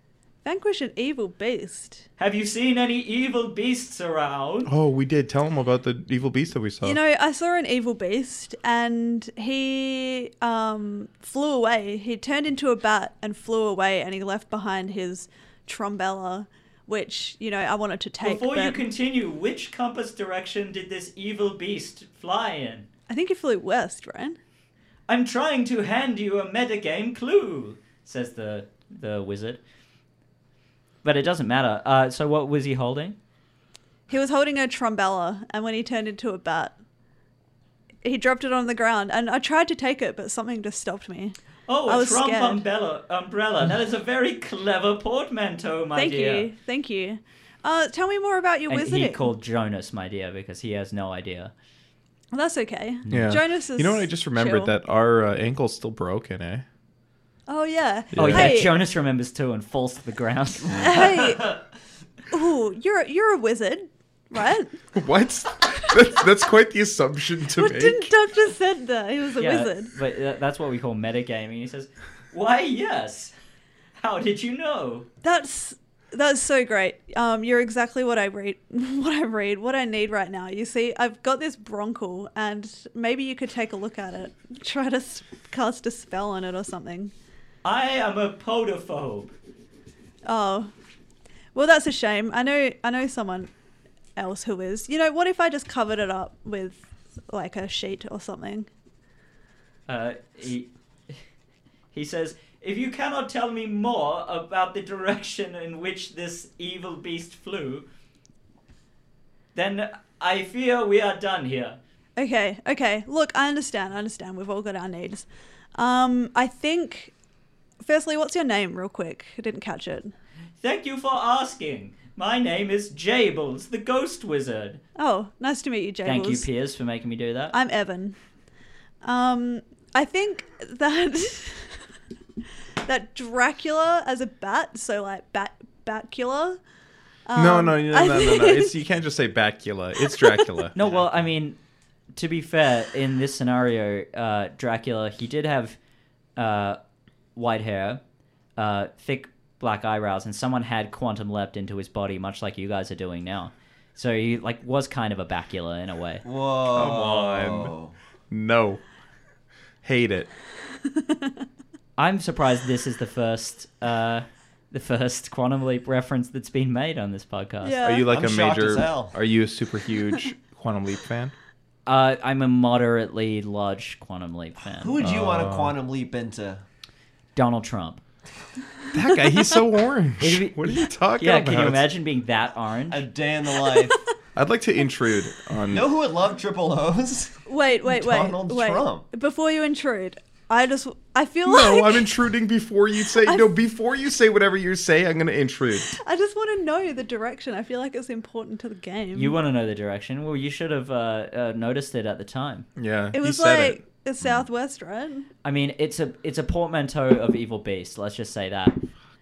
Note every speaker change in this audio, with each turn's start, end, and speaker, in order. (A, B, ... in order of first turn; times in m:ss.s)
0:00.4-0:02.0 A
0:02.2-0:04.7 B
0:04.6-0:07.0 C
0:06.8-0:18.8 A
0:18.2-0:22.9 B
0:23.1-0:24.4 A
0:25.1-0:29.6 B
0:31.0-0:33.2 B
0:34.1-0:36.8 A
0:38.0-0:41.4 A
0:41.7-0:46.5 B
0:41.9-0:42.6 A
0:46.0-0:49.3 A
0:48.7-0:51.5 B
0:52.3-0:54.7 A
0:53.1-0:56.6 C
0:57.5-0:58.7 A
0:58.1-0:58.6 C
0:58.1-1:01.2 B
1:00.7-1:01.6 A
1:02.3-1:04.8 A
1:04.9-1:08.1 C
1:07.6-1:09.9 A
1:09.4-1:13.3 B
1:14.0-1:15.1 B
1:15.2-1:27.1 A
1:27.6-1:29.3 B
1:30.2-1:30.7 A
1:31.5-1:33.5 A
1:34.2-1:38.7 A
1:39.9-1:41.2 B
1:41.9-1:47.9 B
1:49.5-1:51.8 B
1:52.2-1:55.2 A
1:55.8-1:57.1 A
1:57.8-2:00.1 A
2:00.6-2:04.8 B
2:05.0-2:06.5 A
2:06.0-2:07.5 B
2:07.5-2:08.2 A
2:09.0-2:11.8 A
2:12.8-2:16.6 A
2:17.3-2:18.8 A
2:17.3-2:20.8 C
2:20.1-2:20.4 A
2:20.7-2:21.6 B
2:22.1-2:25.8 B
2:26.4-2:26.8 B
2:27.3-2:28.0 B
2:28.6-2:36.2 B
2:36.2-2:37.9 D
2:36.7-2:37.7 C
2:38.3-2:38.8 C
2:39.8-2:40.3 C
2:42.0-2:47.8 B
2:47.6-2:48.1 A
2:47.8-2:51.3 C
2:48.1-2:49.2 D
2:51.8-2:54.9 B
2:54.8-2:56.6 D
2:55.0-2:55.7 C
2:57.3-2:58.0 B
2:58.9-3:01.9 C
3:00.2-3:03.0 B
3:02.9-3:04.0 D
3:03.6-3:04.0 A
3:04.4-3:05.9 C
3:05.7-3:09.1 D
3:07.5-3:12.1 A
3:11.4-3:16.0 C
3:13.2-3:13.5 A
3:15.9-3:19.4 A
3:19.1-3:22.7 B
3:22.8-3:23.8 C
3:23.1-3:25.3 A
3:25.4-3:28.8 B